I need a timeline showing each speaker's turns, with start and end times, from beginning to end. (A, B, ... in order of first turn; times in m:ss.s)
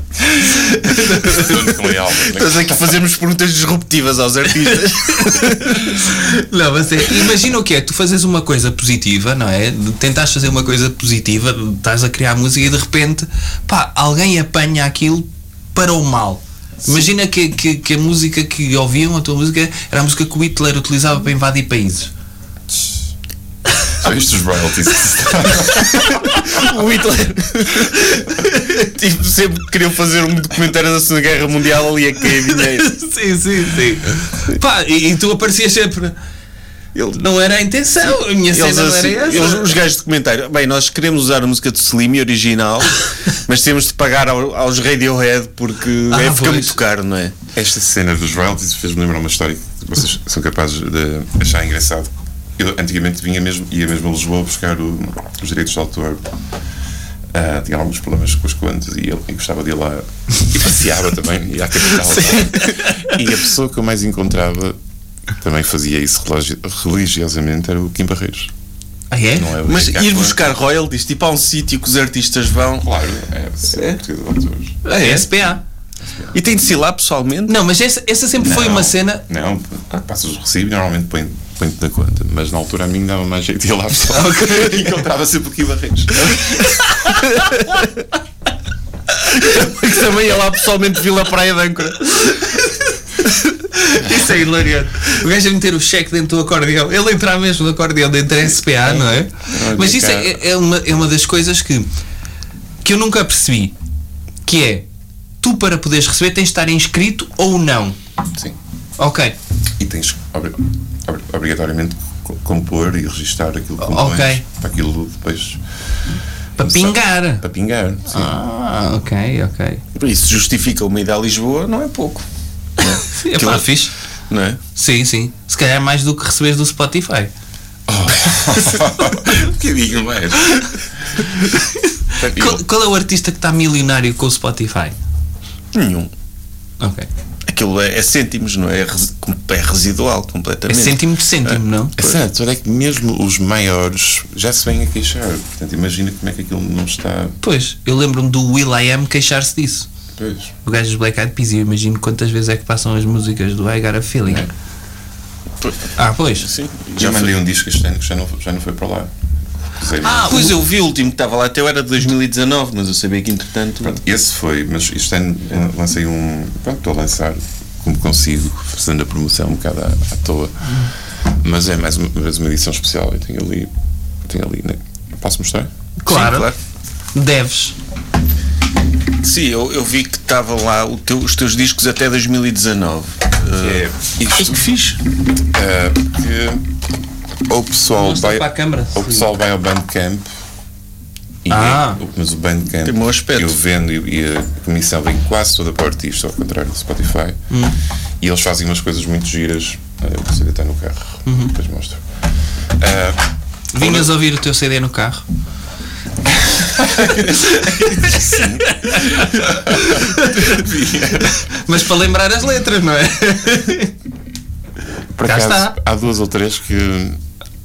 0:00.5-0:01.5 A
0:01.2-0:03.0 B
0:02.2-0:06.2 C
0:05.1-0:22.1 A
0:24.0-0:26.1 B
0:25.8-0:33.0 C
0:32.4-0:36.2 A
0:37.1-0:39.7 A
0:38.5-0:47.3 C
0:46.1-0:46.8 A
0:47.5-0:56.2 B
0:57.3-1:04.8 B
1:02.3-1:02.7 C
1:05.4-1:08.5 B
1:09.1-1:09.5 A
1:09.3-1:10.4 B
1:09.6-1:12.9 C
1:12.8-1:14.8 B
1:13.7-1:14.0 C
1:14.8-1:15.3 C
1:14.9-1:15.6 A
1:16.0-1:16.4 B
1:16.3-1:17.5 C
1:17.5-1:19.2 A
1:18.4-1:26.6 B
1:24.1-1:24.9 A
1:26.3-1:27.5 A
1:27.3-1:27.8 C
1:29.2-1:32.4 C
1:32.1-1:41.9 A
1:38.9-1:40.4 B
1:42.8-1:43.8 A
1:44.4-1:44.8 A
1:45.4-1:48.0 A
1:49.0-1:49.4 A
1:49.8-1:55.6 B
1:53.8-1:54.4 A
1:56.6-1:57.4 A
1:56.6-1:58.4 B
1:58.1-1:59.8 A
1:59.9-2:02.2 C
2:02.8-2:04.6 C
2:03.0-2:03.9 A
2:04.7-2:07.3 A
2:07.9-2:10.7 B
2:11.3-2:15.0 A
2:12.2-2:12.6 B
2:15.7-2:16.1 C
2:16.8-2:17.1 A
2:17.5-2:22.2 C
2:20.7-2:21.9 A
2:22.0-2:27.3 B
2:27.4-2:29.9 A
2:30.2-2:30.5 B
2:30.6-2:34.5 A
2:35.6-2:37.4 C
2:36.0-2:36.5 A
2:37.0-2:39.1 B
2:39.8-2:40.5 B
2:40.0-2:40.6 A
2:40.3-2:44.0 C
2:43.8-2:53.7 B
2:54.2-2:55.7 B
2:56.0-2:56.5 A
2:56.1-2:56.5 C
2:57.1-2:57.8 A
2:59.2-3:03.8 C
3:03.6-3:04.6 B
3:04.4-3:05.0 C
3:05.5-3:06.6 B
3:07.5-3:10.3 B
3:08.0-3:09.3 A
3:11.4-3:17.4 B
3:11.5-3:12.0 A
3:12.8-3:13.6 C
3:17.5-3:17.8 A
3:18.2-3:22.0 B
3:21.3-3:21.5 A
3:22.7-3:24.1 B
3:23.7-3:25.2 A
3:26.5-3:31.4 B
3:27.1-3:30.6 A
3:31.3-3:33.9 A
3:35.2-3:37.2 B
3:35.2-3:35.8 A